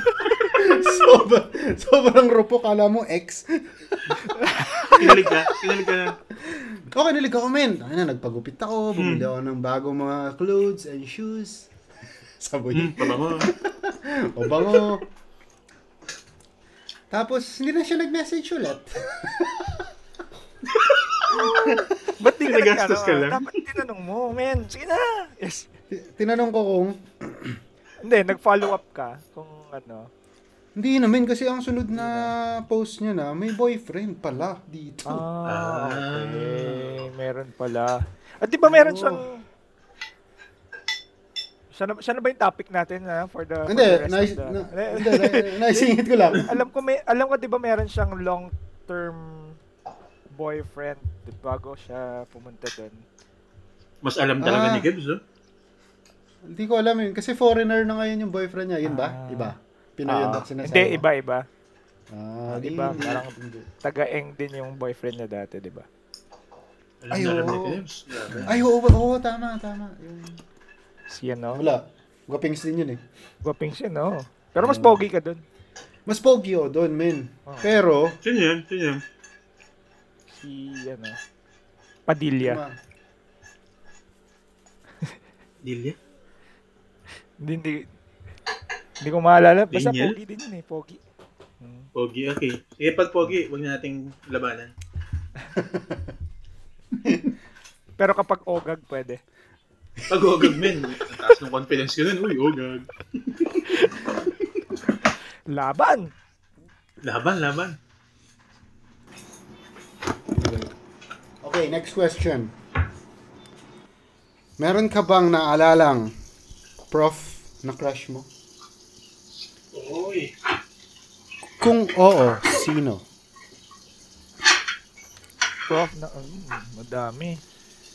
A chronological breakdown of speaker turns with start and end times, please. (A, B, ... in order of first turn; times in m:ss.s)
0:00.5-0:04.1 A
0:04.2-0:05.2 B
0:04.9-0:06.2 C
0:05.0-0:05.4 A
0:06.4-0:11.7 A
0:09.0-0:09.3 C
0:12.4-0:15.1 A
0:12.7-0:13.5 C
0:17.1-0:19.9 A
0:20.7-0:21.5 C
0:21.3-0:22.1 A
0:21.4-0:25.7 B
0:22.2-0:23.5 C
0:25.9-0:27.6 A
0:28.0-0:30.1 B
0:30.8-0:35.3 A
0:32.0-0:32.3 B
0:35.1-0:39.4 B
0:35.4-0:37.1 C
0:38.6-0:39.3 A
0:41.7-0:49.6 B
0:43.7-0:46.5 A
0:50.3-0:53.0 B
0:54.0-0:55.2 C
0:54.4-0:54.9 A
0:56.5-1:01.0 A
0:58.8-1:01.5 B
1:02.1-1:03.7 A
1:02.5-1:05.9 B
1:07.0-1:08.6 C
1:07.1-1:10.4 A
1:11.1-1:11.6 B
1:11.6-1:13.0 A
1:13.4-1:15.4 B
1:14.6-1:15.0 A
1:16.1-1:18.2 A
1:17.5-1:17.8 B
1:18.2-1:19.0 C
1:20.3-1:21.2 B
1:22.1-1:22.6 B
1:22.4-1:22.8 A
1:25.6-1:26.0 C
1:27.4-1:27.9 B
1:29.0-1:31.0 B
1:29.7-1:30.2 C
1:31.6-1:31.9 B
1:32.0-1:34.7 C
1:35.6-1:36.1 A
1:37.0-1:37.3 A
1:38.0-1:39.2 B
1:40.1-1:43.7 C
1:40.4-1:40.8 A
1:43.7-1:44.0 B
1:45.5-1:46.1 B
1:47.0-1:47.8 C
1:50.3-1:50.7 A
1:51.4-1:52.5 A
1:54.6-1:56.1 A
1:56.9-1:58.3 A
1:59.7-2:00.3 C
2:01.6-2:03.0 A
2:05.7-2:07.4 B